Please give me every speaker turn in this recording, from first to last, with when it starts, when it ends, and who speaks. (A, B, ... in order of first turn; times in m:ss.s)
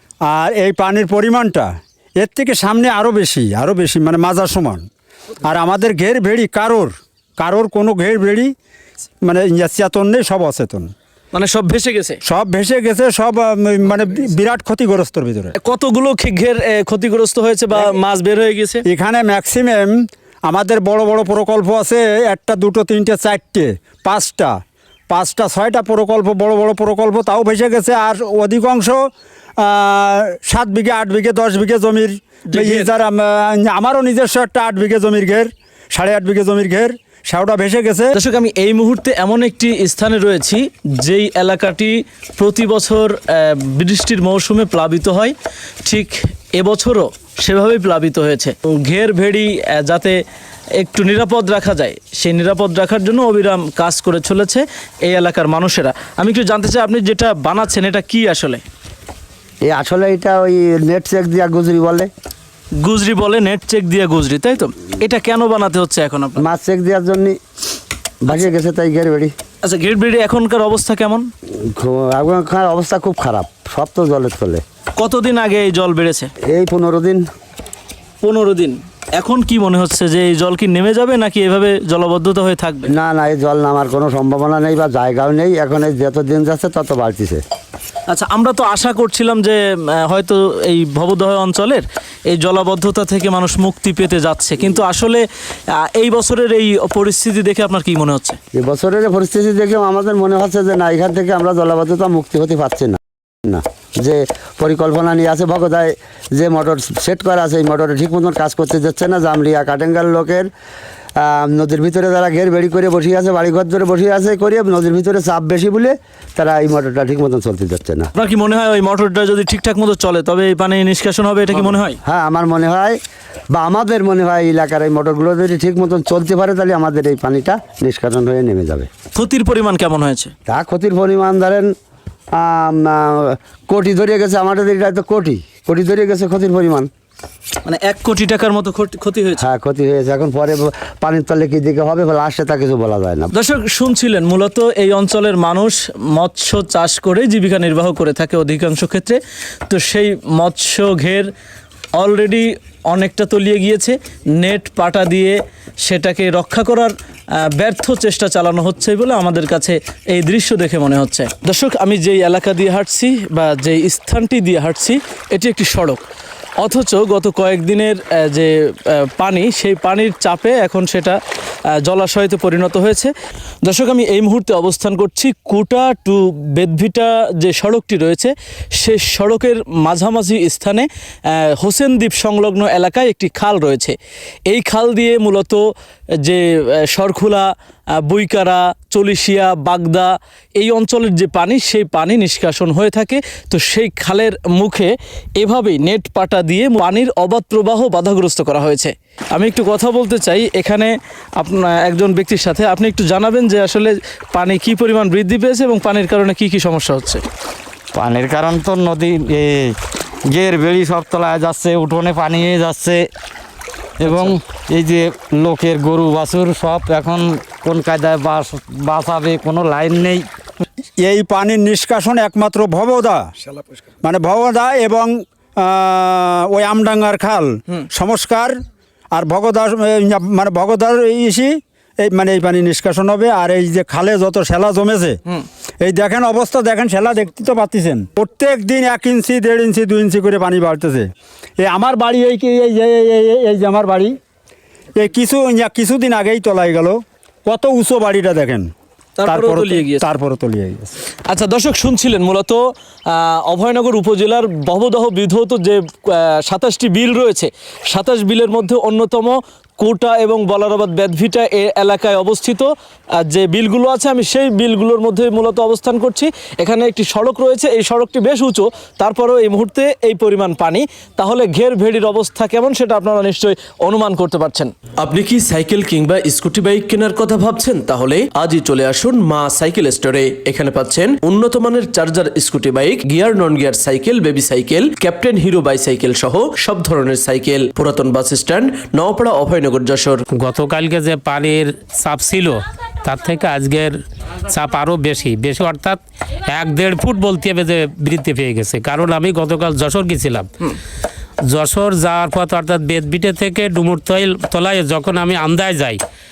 0:00.2-0:04.8 A
0:05.4-0:08.5 A
0:09.2-0:10.9 A
0:11.3-0:12.2 B
0:12.2-0:15.5 A
0:15.6-0:18.8 B
0:18.8-0:24.6 A
0:25.1-0:29.0 A
0:29.6-0:38.2 A
0:32.5-0:32.9 B
0:38.1-0:50.2 B
0:50.8-0:58.6 B
0:59.6-1:02.1 C
1:02.8-1:06.4 B
1:06.4-1:07.4 C
1:08.2-1:09.3 C
1:09.6-1:11.3 B
1:11.7-1:14.6 C
1:15.0-1:16.3 B
1:16.5-1:17.2 C
1:18.2-1:22.9 B
1:22.9-1:27.4 C
1:28.1-1:38.4 B
1:38.5-1:50.5 C
1:51.2-1:58.1 C
1:58.2-2:02.0 B
2:02.0-2:03.0 C
2:03.5-2:08.9 C
2:09.1-2:10.3 B
2:10.5-2:11.7 C
2:12.3-2:16.9 C
2:17.6-2:19.4 B
2:19.4-2:23.3 C
2:23.3-2:31.3 B
2:32.0-2:46.0 B
2:46.6-2:51.2 B
2:51.7-2:53.1 B
2:53.6-3:04.0 B
3:04.5-3:05.6 B
3:06.2-3:27.2 B
3:27.9-3:33.1 D
3:34.0-3:40.3 D
3:41.0-3:43.3 A
3:44.0-3:48.6 A
3:49.1-3:55.2 A
3:55.8-4:01.1 A
4:01.6-4:04.1 A
4:05.0-4:08.7 A
4:09.2-4:10.0 B
4:09.2-4:10.9 A
4:11.3-4:22.7 B
4:23.2-4:34.7 B
4:35.0-4:50.2 E
4:39.8-4:46.8 B
4:50.4-5:00.5 F
5:01.5-5:06.0 F